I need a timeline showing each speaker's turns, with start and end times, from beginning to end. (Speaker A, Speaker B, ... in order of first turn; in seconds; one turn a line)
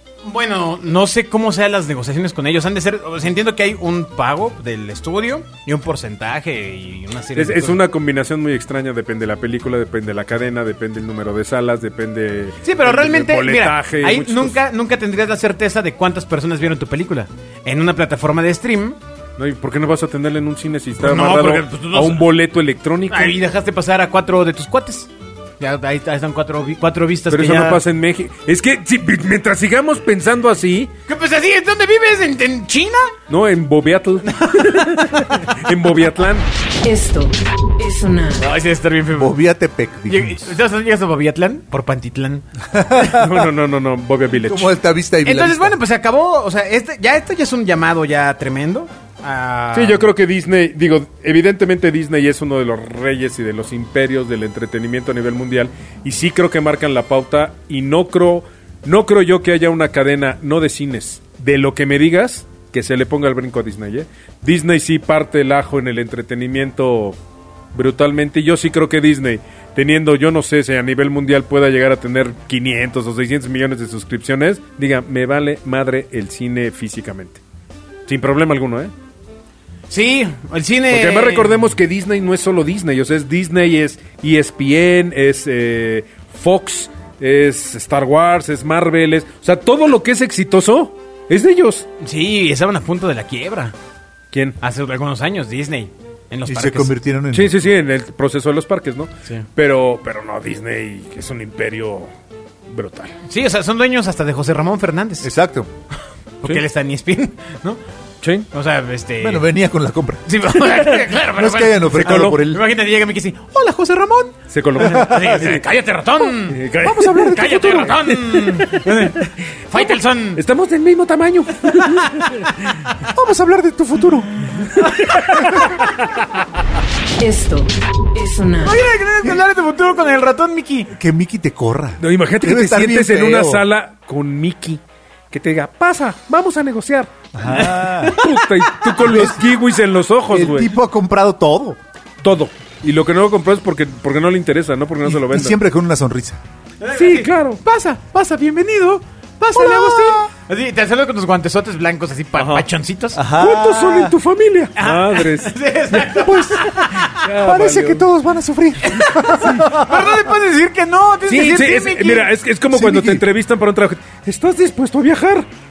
Speaker A: 0.2-7.8
Speaker B: 7.3-14.6
Speaker A: 12.6-19.0
Speaker B: 19.4-23.4
Speaker A: 21.0-22.3
Speaker A: 23.1-27.8
Speaker B: 27.3-30.9
Speaker A: 31.1-33.1
Speaker B: 33.3-36.5
Speaker A: 34.2-35.3
Speaker C: 36.8-38.5
Speaker A: 38.4-39.4
Speaker D: 39.1-40.4
Speaker A: 40.1-42.5
Speaker D: 42.7-43.5
Speaker B: 43.0-44.7
Speaker D: 44.4-45.8
Speaker A: 45.2-50.0
Speaker B: 49.7-67.2
Speaker B: 67.7-77.4
Speaker B: 78.1-78.9
Speaker A: 79.9-81.6
Speaker B: 80.9-91.9
Speaker A: 92.0-93.7
Speaker B: 94.3-94.6
Speaker A: 94.6-96.9
Speaker D: 96.5-97.7
Speaker B: 97.3-102.1
Speaker B: 102.7-103.1
Speaker A: 103.3-105.3
Speaker D: 105.2-105.7
Speaker A: 106.4-107.8
Speaker B: 108.2-108.5
Speaker A: 108.5-109.4
Speaker D: 109.2-110.2
Speaker A: 110.3-116.6
Speaker B: 110.6-111.1
Speaker D: 111.3-112.6
Speaker B: 111.9-112.4
Speaker B: 114.5-115.6
Speaker D: 114.8-115.3
Speaker B: 116.3-122.8
Speaker D: 116.8-117.7
Speaker A: 117.2-120.4
Speaker D: 123.1-124.6
Speaker B: 124.6-126.3
Speaker A: 124.8-125.2
Speaker C: 127.2-128.9
Speaker A: 128.6-130.9
Speaker D: 130.9-133.6
Speaker B: 132.0-134.8
Speaker B: 135.3-137.1
Speaker D: 137.3-138.2
Speaker A: 137.5-139.2
Speaker B: 138.0-140.7
Speaker D: 139.0-139.4
Speaker D: 140.3-141.8
Speaker B: 142.2-145.6
Speaker D: 145.0-146.4
Speaker A: 146.8-153.2
Speaker B: 146.9-147.6
Speaker D: 149.5-150.3
Speaker B: 152.3-152.7
Speaker D: 153.1-154.2
Speaker B: 153.3-158.0
Speaker A: 154.8-157.2
Speaker D: 156.1-156.8
Speaker D: 157.4-160.3
Speaker A: 158.8-162.3
Speaker B: 161.3-165.5
Speaker D: 162.7-163.2